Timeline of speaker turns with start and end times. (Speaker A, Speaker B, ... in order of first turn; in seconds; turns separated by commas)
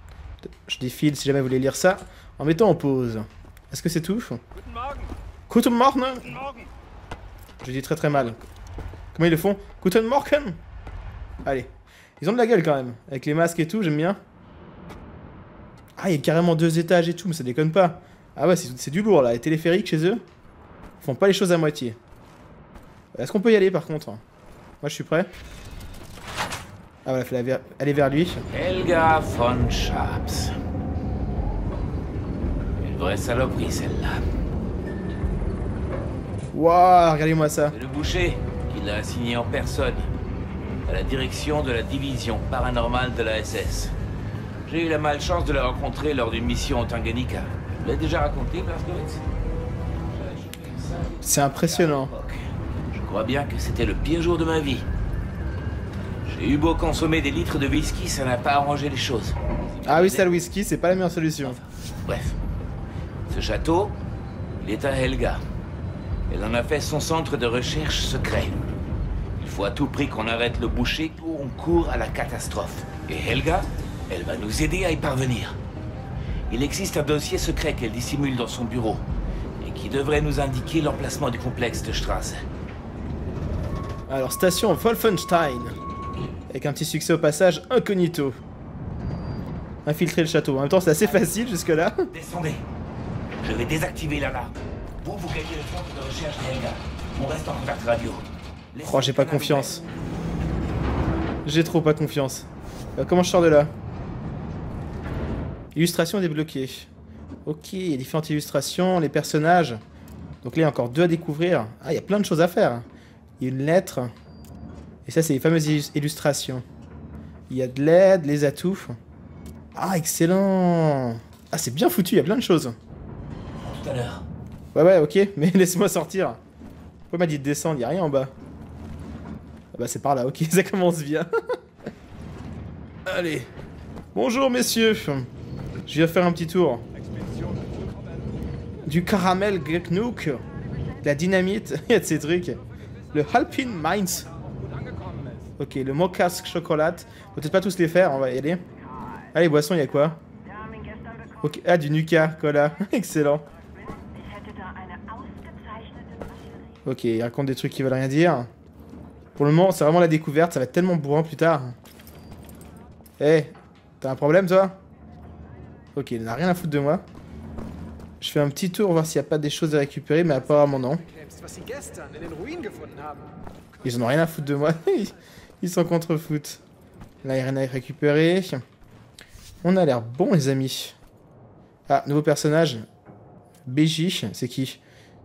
Speaker A: 0.4-4.4, Speaker B: 4.6-5.1, Speaker A: 5.5-6.4, Speaker A: 7.6-8.4, Speaker A: 9.1-10.6, Speaker A: 11.4-14.2, Speaker A: 16.0-20.2, Speaker A: 21.0-22.0, Speaker A: 23.1-24.2, Speaker A: 24.8-25.3, Speaker A: 27.1-28.4, Speaker C: 28.5-30.6, Speaker C: 32.8-34.2, Speaker A: 36.5-37.8, Speaker C: 37.7-40.1, Speaker C: 40.9-43.9, Speaker C: 44.6-49.2, Speaker C: 50.1-54.9, Speaker A: 51.2-52.1, Speaker C: 56.2-60.3, Speaker A: 59.9-61.6, Speaker C: 61.4-62.4, Speaker C: 63.3-64.0, Speaker C: 64.6-65.4, Speaker C: 66.3-68.6, Speaker C: 69.4-75.6, Speaker C: 76.5-79.1, Speaker C: 79.6-82.4, Speaker A: 84.1-85.8, Speaker A: 86.5-88.4, Speaker A: 89.8-92.1, Speaker C: 92.1-92.6, Speaker C: 93.4-99.8, Speaker A: 98.8-99.8, Speaker A: 101.4-103.7, Speaker A: 105.7-106.9, Speaker A: 107.4-109.8, Speaker A: 110.4-112.8, Speaker A: 113.4-114.1, Speaker A: 115.0-116.6, Speaker A: 117.5-119.0, Speaker A: 119.7-122.8, Speaker C: 123.6-124.2, Speaker A: 124.7-126.4, Speaker A: 127.1-128.3, Speaker A: 129.7-131.3, Speaker A: 133.1-133.5, Speaker A: 134.2-135.3, Speaker A: 135.9-136.9, Speaker B: 137.0-138.2, Speaker A: 138.8-140.4, Speaker A: 141.0-142.6, Speaker A: 143.1-144.3, Speaker B: 144.3-145.5, Speaker A: 145.6-148.6, Speaker A: 149.3-150.2, Speaker A: 151.4-153.5, Speaker A: 156.8-158.5, Speaker A: 159.3-161.7, Speaker A: 163.2-164.8, Speaker A: 165.9-167.0, Speaker A: 168.2-171.0, Speaker B: 170.6-173.3, Speaker A: 173.8-176.6, Speaker A: 177.2-178.6, Speaker A: 179.6-180.9, Speaker A: 181.9-182.9, Speaker A: 183.7-184.8